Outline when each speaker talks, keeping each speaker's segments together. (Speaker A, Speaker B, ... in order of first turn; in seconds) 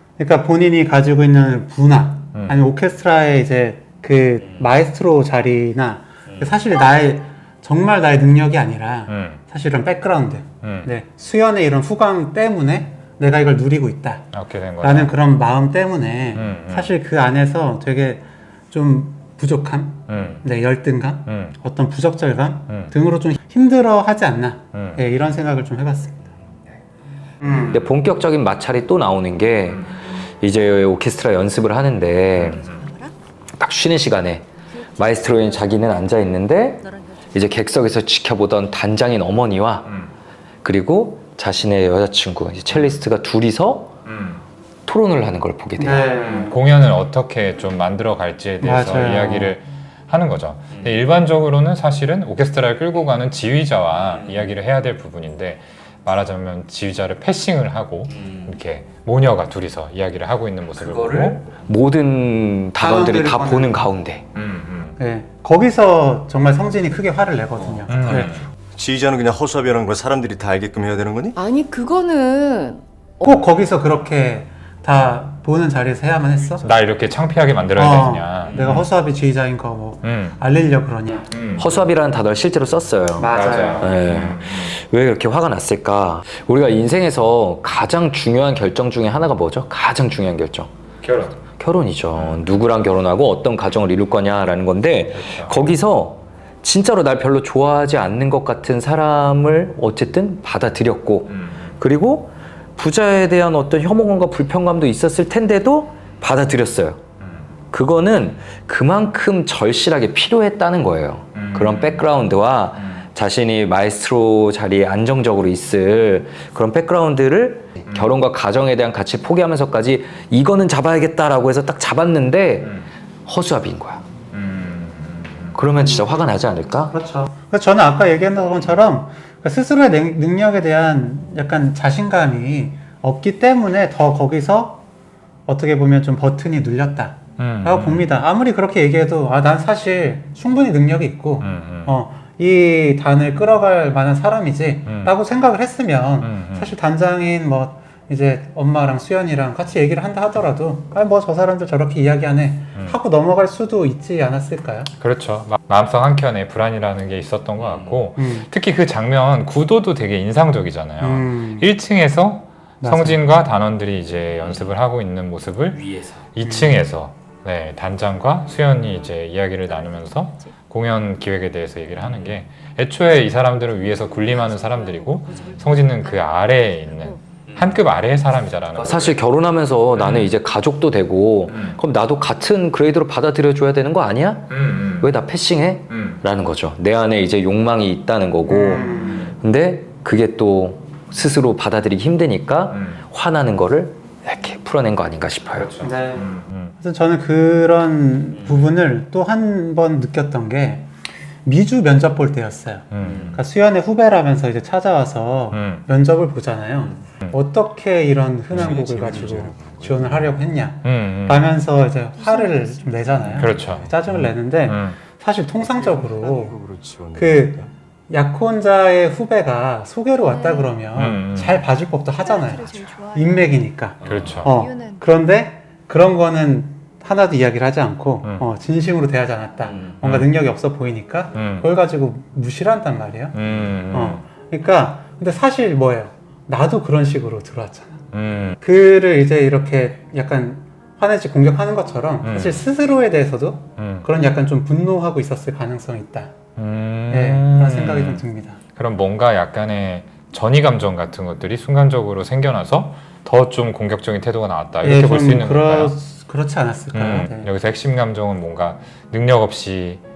Speaker A: 0.2-14.3, 14.8-26.2, 27.4-27.8, 45.8-46.5, 48.6-49.5, 62.8-63.8, 65.0-68.3, 73.2-76.6, 77.8-81.3, 83.2-83.9, 125.8-126.1, 126.9-134.8, 135.5-154.9, 158.2-158.5, 161.0-161.7, 162.8-163.2, 166.4-166.9, 188.5-189.3, 195.8-196.3, 196.8-200.9, 201.4-216.6, 217.1-233.3, 233.9-238.0, 238.6-246.3, 247.1-248.6, 254.8-257.5
Speaker B: 9.1-9.4, 10.6-10.9, 14.3-15.1, 16.3-16.9, 20.1-20.4, 21.3-21.5, 24.7-25.0, 32.3-32.9, 39.9-40.1, 42.7-43.0, 44.0-44.4, 46.2-61.5, 64.3-65.0, 67.9-68.5, 76.6-78.9, 80.0-80.4, 81.3-81.9, 83.2-84.7, 91.0-91.4, 92.2-92.4, 95.1-95.6, 101.3-101.7, 107.2-107.5, 111.3-112.1, 124.3-125.5, 137.4-138.1, 141.4-141.9, 144.9-145.1, 146.2-146.7, 155.0-179.2, 179.9-180.3, 181.5-181.8, 184.5-185.1, 185.9-186.2, 192.7-193.0, 195.5-196.7, 202.9-203.4, 205.5-205.8, 210.8-211.5, 213.4-215.0, 220.9-221.6, 224.0-224.5, 230.0-230.3, 231.3-231.7, 233.3-234.2, 238.1-238.6, 242.2-242.6, 243.8-244.1, 246.6-248.2, 248.8-255.9, 256.9-260.0
Speaker C: 27.7-32.6, 33.6-39.9, 40.6-43.9, 44.9-46.2, 58.2-58.5, 60.8-64.2, 81.6-90.7, 91.6-107.0, 107.7-124.0, 125.5-126.9, 157.6-158.0, 165.7-166.2, 178.7-195.7, 198.3-198.7, 203.0-203.4, 224.0-224.4, 229.6-229.9
Speaker D: 32.4-33.1, 34.7-37.6, 71.4-73.2, 169.7-170.5, 173.7-177.2, 212.2-213.4, 220.2-220.9, 222.1-223.7, 224.5-225.1
Speaker E: 67.9-71.4, 208.5-210.5, 213.1-214.3, 215.6-217.7